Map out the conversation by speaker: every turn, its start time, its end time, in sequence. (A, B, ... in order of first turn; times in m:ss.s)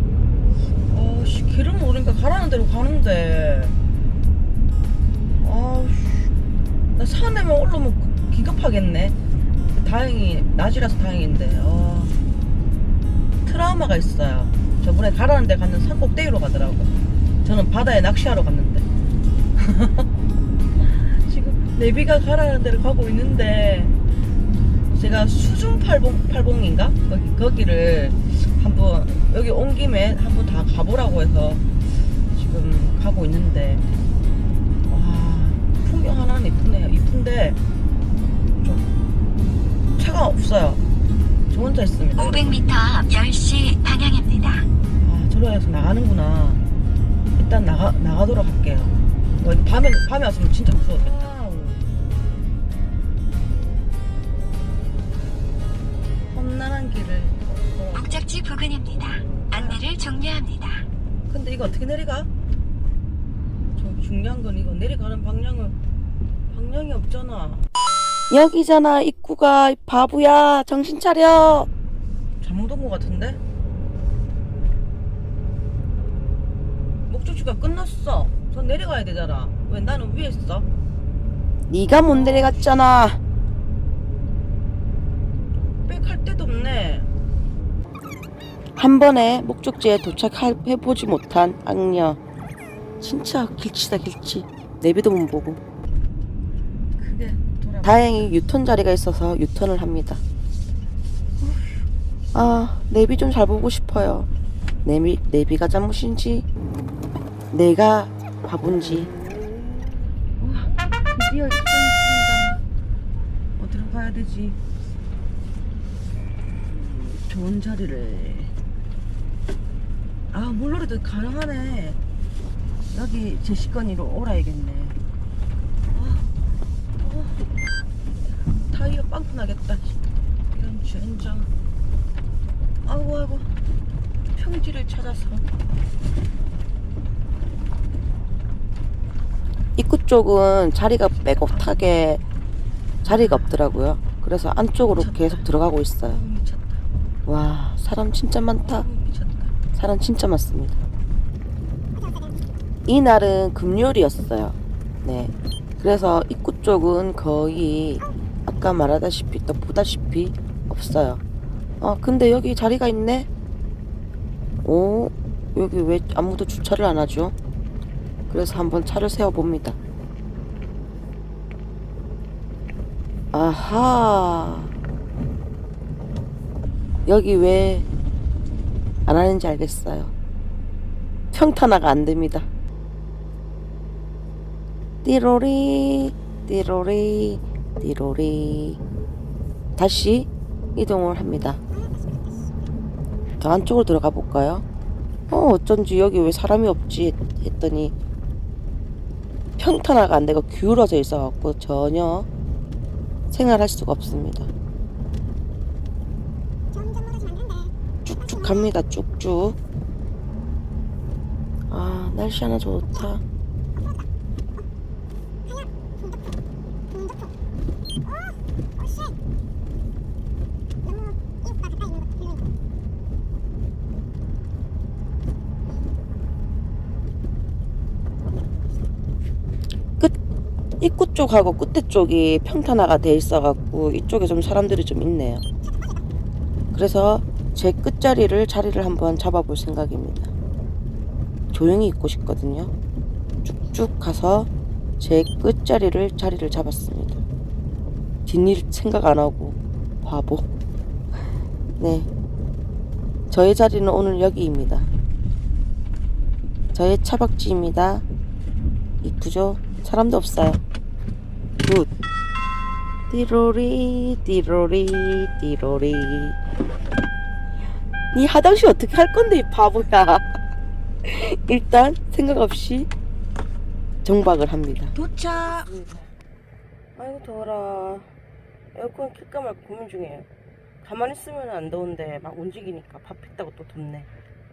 0:00.9-0:03.8 A
0:05.4-0:06.3 A
0:07.0-0:09.2 A
0:09.7-0:12.1 A
0:13.4-0:16.9 A
0:17.4-0:18.8 A
0:19.6-0:20.0 A
0:20.8-0:23.9 A
0:24.9-0:31.7 A
0:32.3-0:33.8 A
0:34.9-0:37.6 A
0:40.0-0:40.8 A
0:41.5-0:42.6 A
0:42.2-0:44.7 B
0:45.0-0:46.6 A
0:47.4-0:51.8 A
0:56.3-0:58.2 A
0:57.9-1:00.8 B
0:59.5-0:59.8 A
1:01.3-1:02.3 A
1:03.8-1:05.8 A
1:06.5-1:07.6 A
1:08.3-1:11.7 C
1:12.4-1:13.4 A
1:17.1-1:20.6 A
1:21.7-1:23.2 C
1:21.9-1:22.7 A
1:25.9-1:27.1 A
1:28.8-1:32.2 C
1:33.0-1:35.6 C
1:37.0-1:38.4 A
1:37.8-1:40.2 C
1:41.4-1:41.9 A
1:42.3-1:44.3 C
1:44.8-1:46.4 C
1:47.5-1:49.1 C
1:50.4-1:52.6 A
1:53.6-1:54.6 A
1:56.7-1:58.5 A
2:00.3-2:02.0 A
2:02.9-2:05.0 A
2:05.9-2:06.3 A
2:07.0-2:07.4 A
2:08.2-2:10.0 A
2:10.5-2:11.5 A
2:12.8-2:13.5 A
2:14.3-2:15.4 A
2:19.8-2:22.2 C
2:21.2-2:21.8 A
2:23.0-2:26.2 C
2:23.0-2:23.7 A
2:24.8-2:25.5 A
2:26.0-2:26.8 A
2:27.2-2:28.9 C
2:28.6-2:29.5 A
2:29.8-2:30.8 C
2:32.9-2:41.2 C
2:41.8-2:43.3 C
2:44.6-2:47.3 C
2:48.3-2:49.8 C
2:53.3-2:54.7 C
2:57.0-2:57.8 C
2:59.0-3:00.1 C
3:01.3-3:02.5 C
3:05.0-3:08.8 C
3:09.8-3:11.6 C
3:13.4-3:14.6 C
3:15.3-3:17.9 C
3:19.6-3:22.3 C
3:23.3-3:24.5 C
3:28.0-3:29.6 C
3:31.7-3:33.2 C
3:50.8-3:55.4 C
3:56.7-4:00.3 C
4:01.5-4:02.7 C
4:03.4-4:04.5 C
4:05.0-4:07.2 C
4:08.3-4:10.5 C
4:11.8-4:12.1 C
4:13.3-4:14.9 C
4:16.7-4:18.0 C
4:19.0-4:20.6 C
4:23.1-4:26.4 C
4:28.1-4:30.2 C
4:31.0-4:32.9 C
4:34.0-4:35.0 C
4:34.9-4:36.1 A
4:37.0-4:38.1 A
4:38.7-4:40.2 A
4:40.8-4:44.1 A